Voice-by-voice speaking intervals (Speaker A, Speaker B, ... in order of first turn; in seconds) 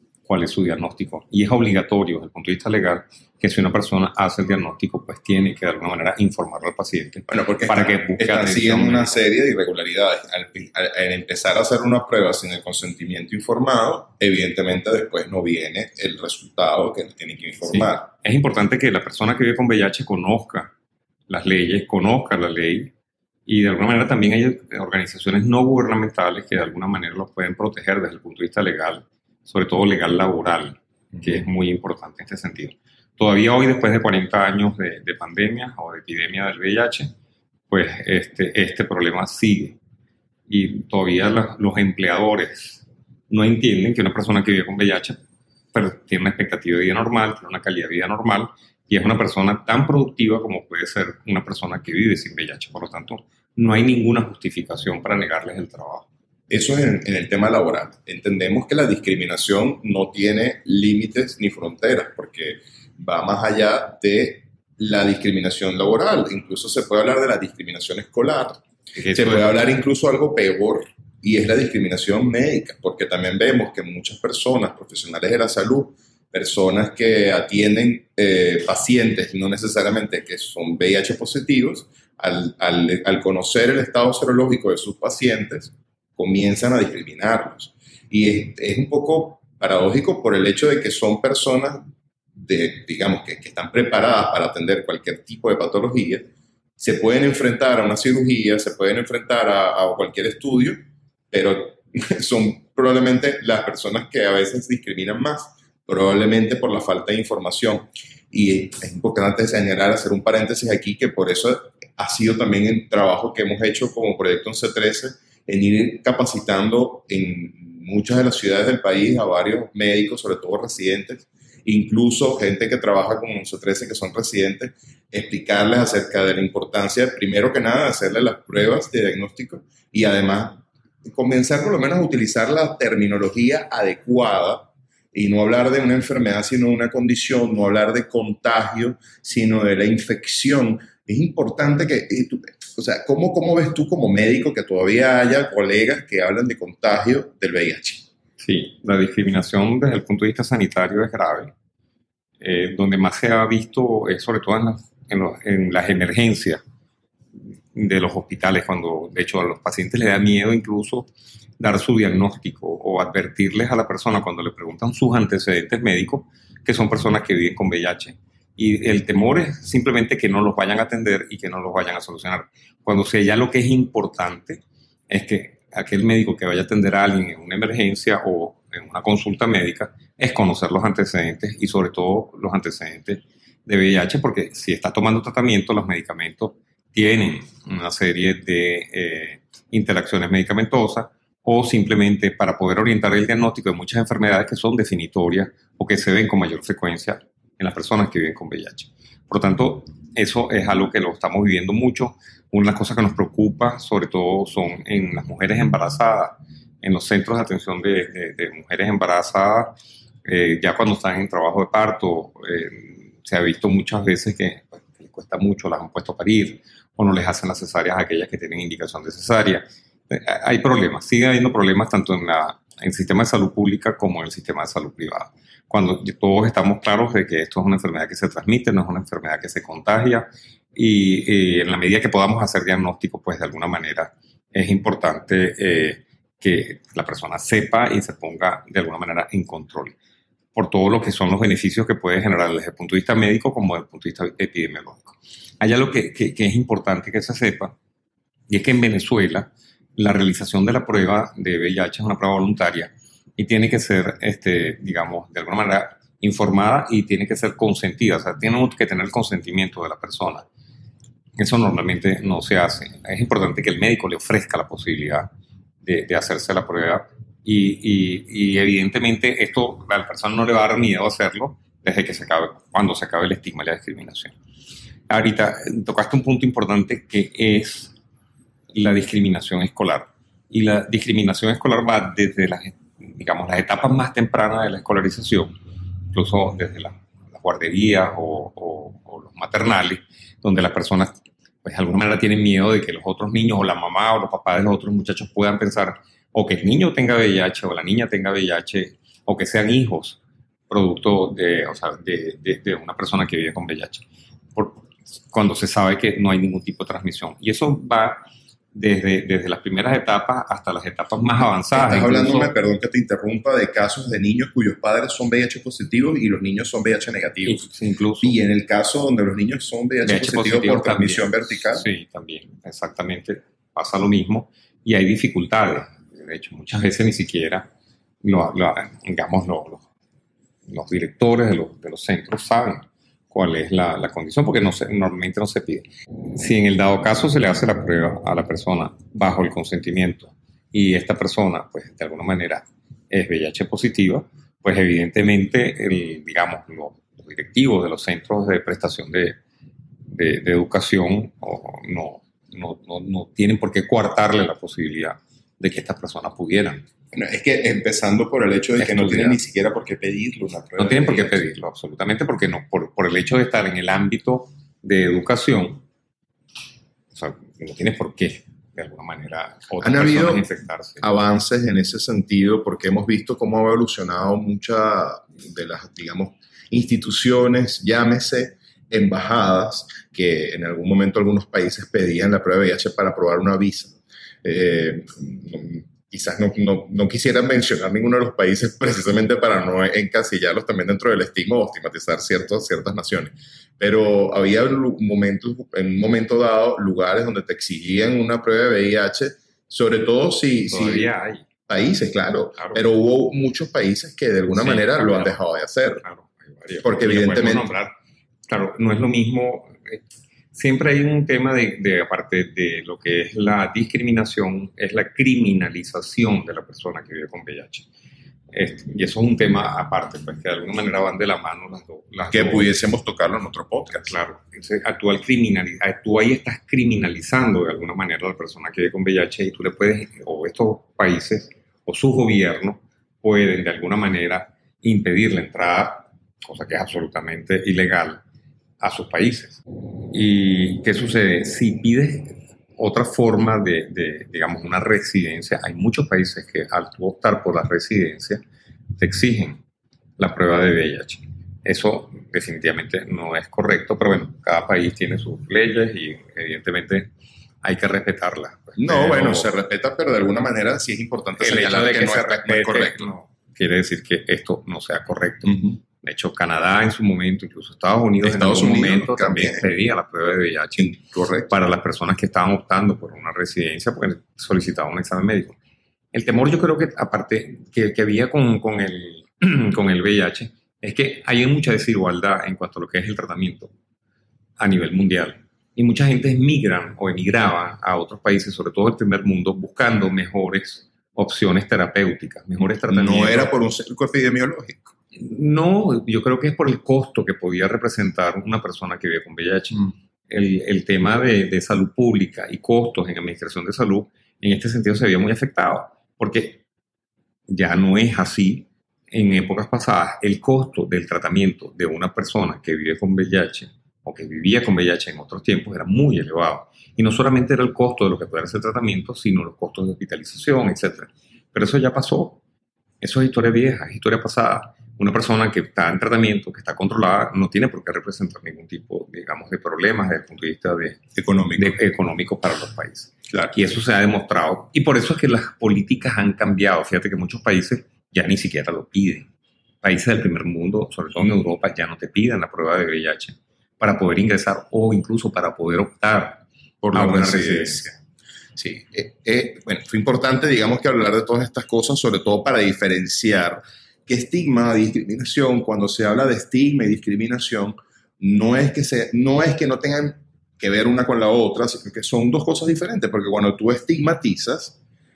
Speaker A: 0.3-9.2, 17.7-20.7, 21.3-22.9, 23.5-37.1, 37.7-39.8, 40.5-45.2, 45.7-56.1, 69.0-69.6, 148.4-151.5, 152.4-156.6, 157.7-209.7, 210.2-240.0, 240.6-247.8, 248.5-260.5, 261.4-265.3, 265.8-274.3, 275.1-277.9, 278.7-285.5, 286.1-291.1, 291.6-312.5, 317.4-318.4, 320.0-327.7, 328.2-329.9, 330.7-349.4, 350.1-356.9, 358.8-359.4, 360.8-365.8, 367.1-371.1, 400.7-401.4, 402.6-402.8, 404.5-405.4, 406.0-407.9, 408.5-410.0, 410.5-417.9, 418.5-422.7, 424.0-438.2, 438.8-439.6, 440.1-448.4, 449.0-449.6, 450.2-457.1, 457.6-459.5, 461.4-475.6, 476.1-483.7, 484.6-493.5, 495.1-506.6, 507.5-522.4, 523.0-531.0, 531.6-539.3, 539.8-548.0
Speaker B: 7.3-18.1, 56.5-100.8, 101.3-148.1, 311.7-317.6, 318.2-321.9, 357.1-361.4, 369.8-370.4, 371.0-401.1, 401.7-406.0, 406.8-407.7, 422.3-424.1, 458.8-463.1, 468.2-469.7, 470.8-471.5, 492.9-494.9, 531.2-531.8, 533.3-533.6, 546.9-547.9, 548.6-564.8